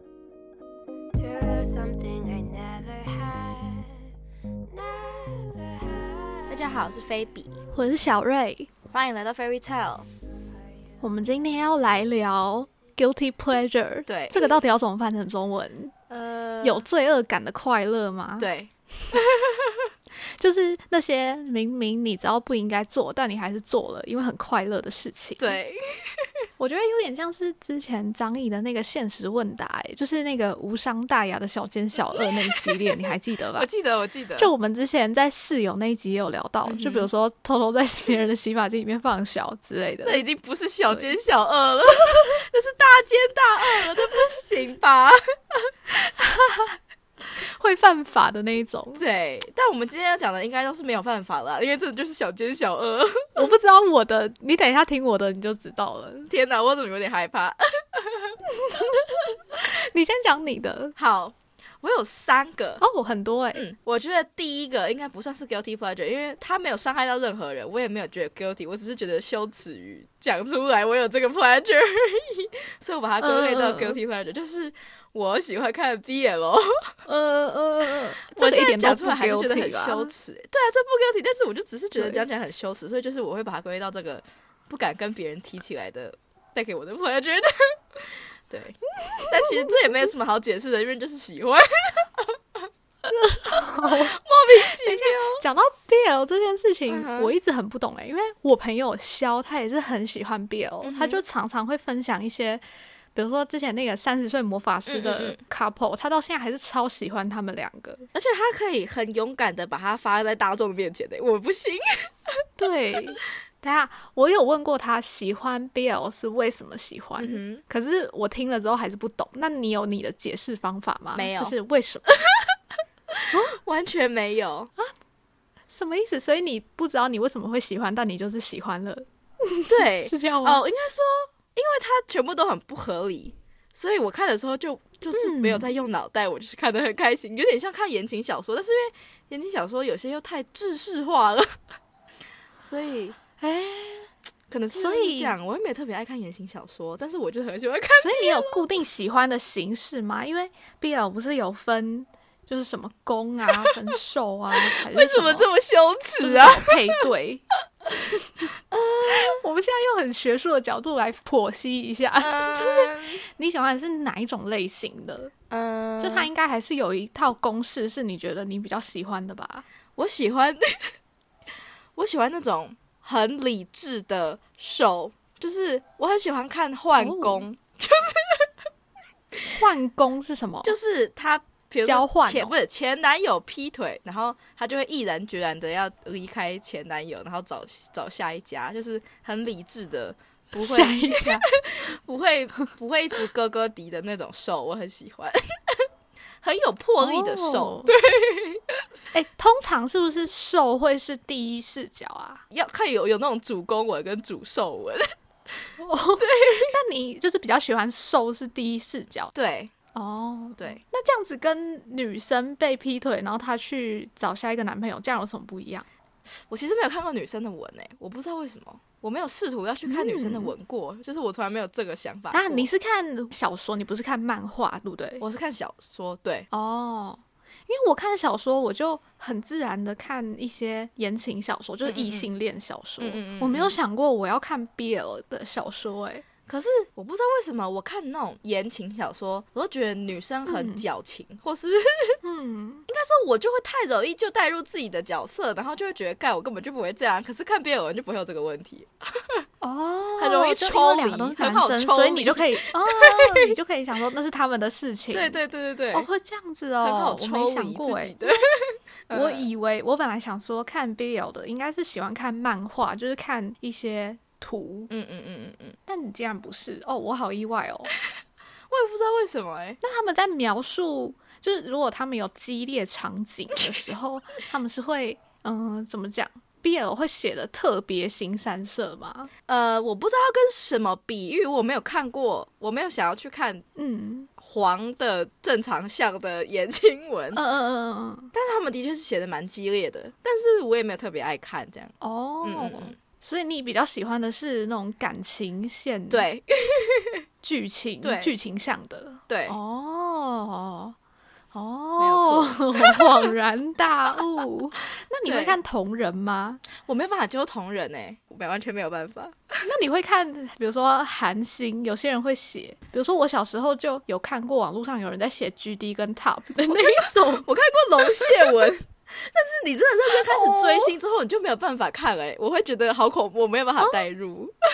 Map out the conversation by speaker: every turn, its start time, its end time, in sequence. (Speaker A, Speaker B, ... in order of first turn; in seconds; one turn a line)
Speaker A: 1.2-4.0
Speaker A: 4.7-6.7
Speaker B: 6.5-7.6
Speaker C: 7.7-8.7
Speaker B: 8.9-10.1
Speaker C: 11.0-15.9
Speaker B: 14.1-14.5
Speaker B: 16.1-16.9
Speaker C: 16.6-18.5
Speaker B: 18.4-19.9
Speaker C: 20.4-25.6
Speaker B: 25.4-26.4
Speaker C: 26.6-33.7
Speaker B: 32.2-33.0
Speaker B: 33.5-34.5
Speaker C: 34.4-40.2
Speaker B: 36.6-37.1
Speaker B: 40.0-45.7
Speaker C: 45.9-46.8
Speaker C: 47.3-49.0
Speaker B: 49.0-53.5
Speaker C: 53.4-56.3
Speaker B: 56.3-58.4
Speaker C: 58.5-60.9
Speaker B: 61.0-62.8
Speaker C: 62.8-63.7
Speaker B: 63.5-76.9
Speaker C: 73.2-74.0
Speaker C: 77.0-80.1
Speaker B: 78.3-92.7
Speaker C: 82.0-82.2
Speaker C: 89.1-89.6
Speaker C: 93.1-94.2
Speaker B: 93.5-95.4
Speaker C: 94.8-102.6
Speaker B: 96.9-97.3
Speaker B: 100.8-101.2
Speaker C: 103.1-108.1
Speaker B: 104.9-105.4
Speaker B: 108.1-112.4
Speaker C: 112.6-122.1
Speaker B: 117.2-117.6
Speaker B: 121.1-121.6
Speaker B: 122.2-122.6
Speaker B: 123.1-124.7
Speaker C: 123.3-123.6
Speaker C: 125.7-130.6
Speaker B: 129.7-141.6
Speaker C: 135.1-135.7
Speaker B: 142.6-143.2
Speaker C: 143.4-144.1
Speaker B: 144.5-148.6
Speaker C: 144.7-145.3
Speaker C: 148.0-155.5
Speaker B: 154.5-156.9
Speaker C: 156.2-157.4
Speaker B: 158.4-159.4
Speaker C: 159.1-165.3
Speaker B: 162.2-163.2
Speaker B: 165.5-166.3
Speaker C: 166.0-169.7
Speaker B: 169.9-170.9
Speaker B: 171.9-178.5
Speaker C: 177.0-177.4
Speaker C: 179.5-180.8
Speaker B: 180.6-195.9
Speaker C: 181.8-182.5
Speaker C: 190.6-191.4
Speaker B: 196.4-198.8
Speaker C: 197.0-197.9
Speaker C: 199.1-202.4
Speaker B: 202.5-205.6
Speaker C: 205.8-209.3
Speaker B: 206.2-206.7
Speaker B: 209.3-209.7
Speaker C: 209.9-215.8
Speaker B: 216.5-222.7
Speaker C: 219.9-220.5
Speaker C: 222.3-225.2
Speaker B: 225.2-226.5
Speaker C: 226.5-236.2
Speaker B: 231.8-232.3
Speaker B: 233.0-233.8
Speaker B: 236.5-242.2
Speaker C: 240.5-240.8
Speaker C: 242.2-242.8
Speaker B: 242.9-249.4
Speaker C: 249.6-255.4
Speaker B: 250.2-253.5
Speaker B: 255.1-256.1
Speaker C: 255.9-258.4
Speaker B: 256.8-259.5
Speaker C: 259.1-264.9
Speaker B: 264.9-265.8
Speaker C: 265.9-267.9
Speaker B: 268.7-269.8
Speaker C: 269.8-279.3
Speaker B: 279.5-283.6
Speaker C: 283.8-284.3
Speaker B: 284.4-287.4
Speaker C: 287.3-288.3
Speaker B: 288.3-292.9
Speaker C: 292.0-296.3
Speaker B: 296.1-297.2
Speaker C: 297.4-300.9
Speaker B: 298.0-298.4
Speaker B: 299.3-299.6
Speaker C: 301.5-306.6
Speaker B: 302.0-303.2
Speaker B: 305.2-305.6
Speaker B: 306.8-309.6
Speaker C: 309.6-317.5
Speaker B: 316.7-324.6
Speaker C: 318.1-318.5
Speaker C: 320.1-320.9